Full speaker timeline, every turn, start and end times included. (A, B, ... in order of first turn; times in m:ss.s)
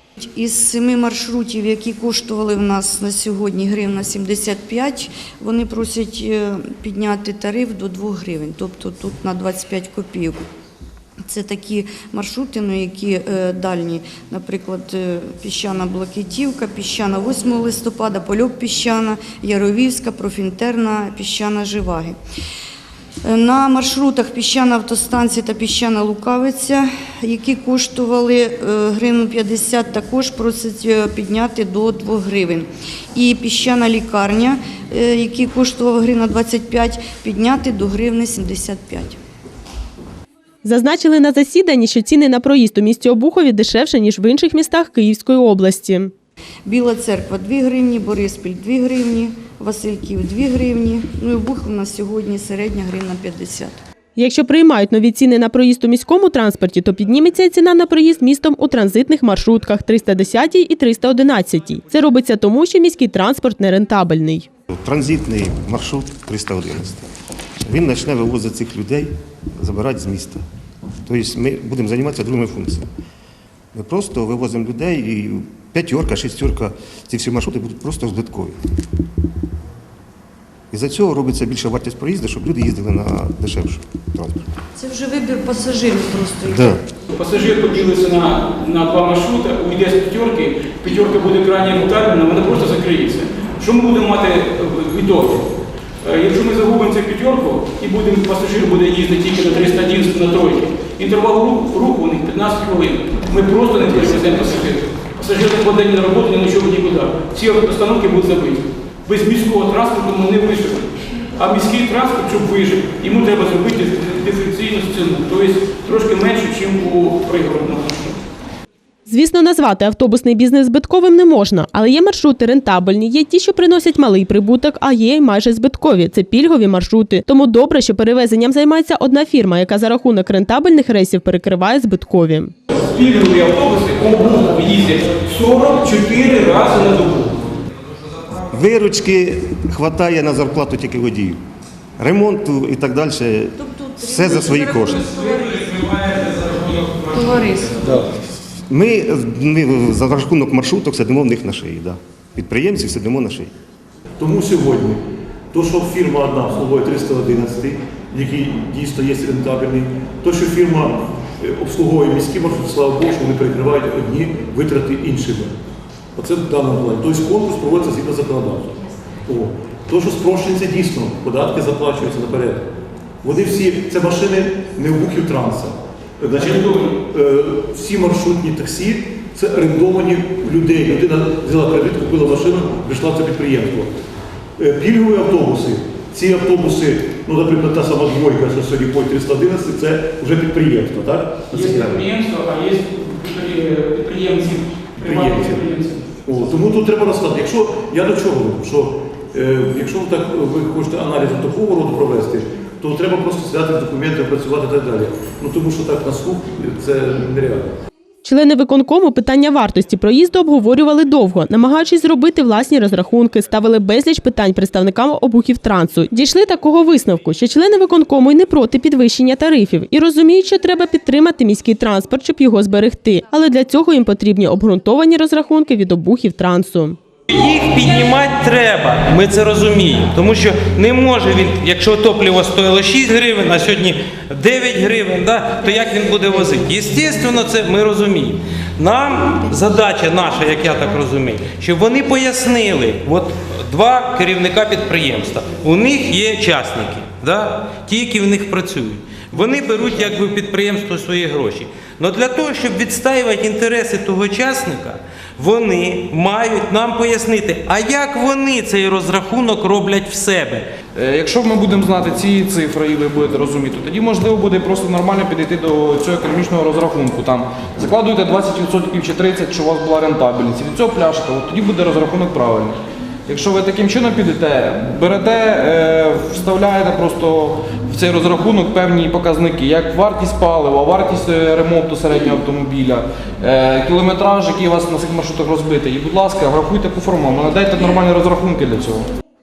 0:00.2-0:10.4 A
0:11.3-0:22.2 A
0:23.2-0:39.2 A
0:40.6-0:46.1 B
0:46.6-0:53.8 A
0:54.2-1:04.5 B
1:04.8-1:07.0 C
1:07.6-1:10.4 C
1:11.0-1:12.9 C
1:13.7-1:18.6 C
1:20.7-1:24.5 C
1:24.8-1:26.8 A
1:26.5-1:26.8 C
1:27.1-1:35.5 D
1:36.0-1:58.2 D
1:59.0-2:12.5 B
2:12.8-2:17.3 E
2:18.5-2:21.4 C
2:22.0-2:25.1 C
2:24.7-2:26.0 A
2:26.2-2:27.0 E
2:27.0-2:28.0 A
2:28.7-2:33.5 C
2:34.2-2:45.5 F
2:46.2-2:52.7 F
2:53.2-3:03.9 F
3:04.6-3:12.0 F
3:11.5-3:16.1 D
3:15.0-3:15.6 F
3:16.2-3:27.7 F
3:28.2-3:47.0 B
3:47.3-4:20.6 G
4:20.9-4:49.1 E